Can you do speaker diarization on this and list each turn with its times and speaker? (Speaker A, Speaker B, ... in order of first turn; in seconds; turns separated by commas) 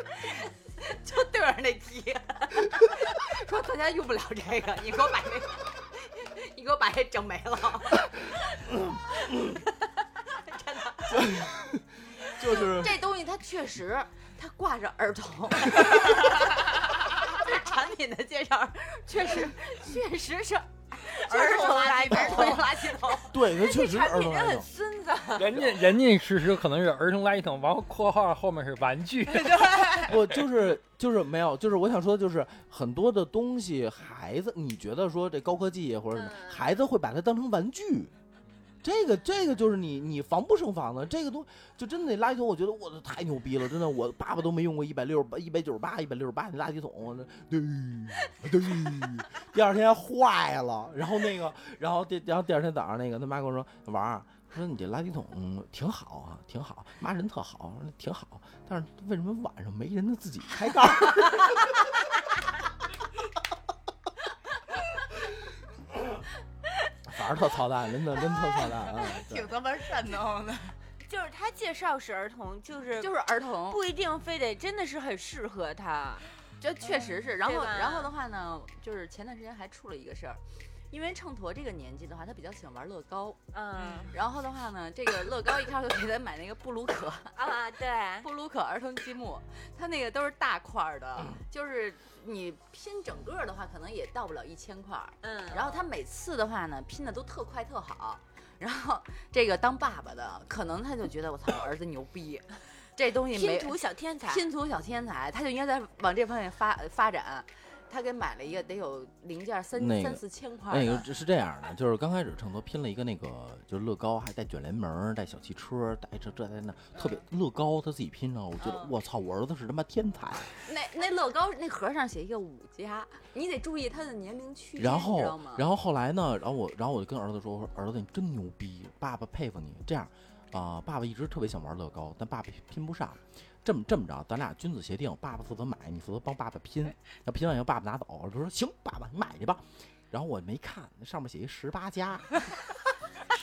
Speaker A: 0.3-9.7, Speaker A: 10.3-11.4, Speaker B: 11.1-13.0, Speaker A: 12.4-23.4, Speaker C: 21.3-22.7, Speaker D: 21.3-22.7, Speaker D: 23.2-25.9, Speaker B: 23.3-24.7, Speaker E: 25.4-30.0, Speaker D: 29.4-30.1, Speaker B: 30.1-38.1, Speaker D: 36.1-36.6, Speaker B: 38.8-61.8, Speaker B: 67.1-69.5, Speaker C: 68.9-70.8, Speaker D: 71.0-76.3, Speaker A: 73.0-73.8, Speaker A: 76.6-83.4, Speaker C: 76.9-77.2, Speaker D: 77.4-78.1, Speaker D: 83.5-84.2, Speaker A: 84.1-87.5, Speaker D: 87.3-88.3, Speaker A: 88.2-103.8, Speaker D: 95.2-95.9, Speaker D: 103.3-104.5, Speaker A: 104.3-111.1, Speaker B: 109.8-120.5, Speaker A: 118.6-118.9, Speaker A: 120.6-125.3, Speaker B: 124.8-142.7, Speaker D: 124.8-125.6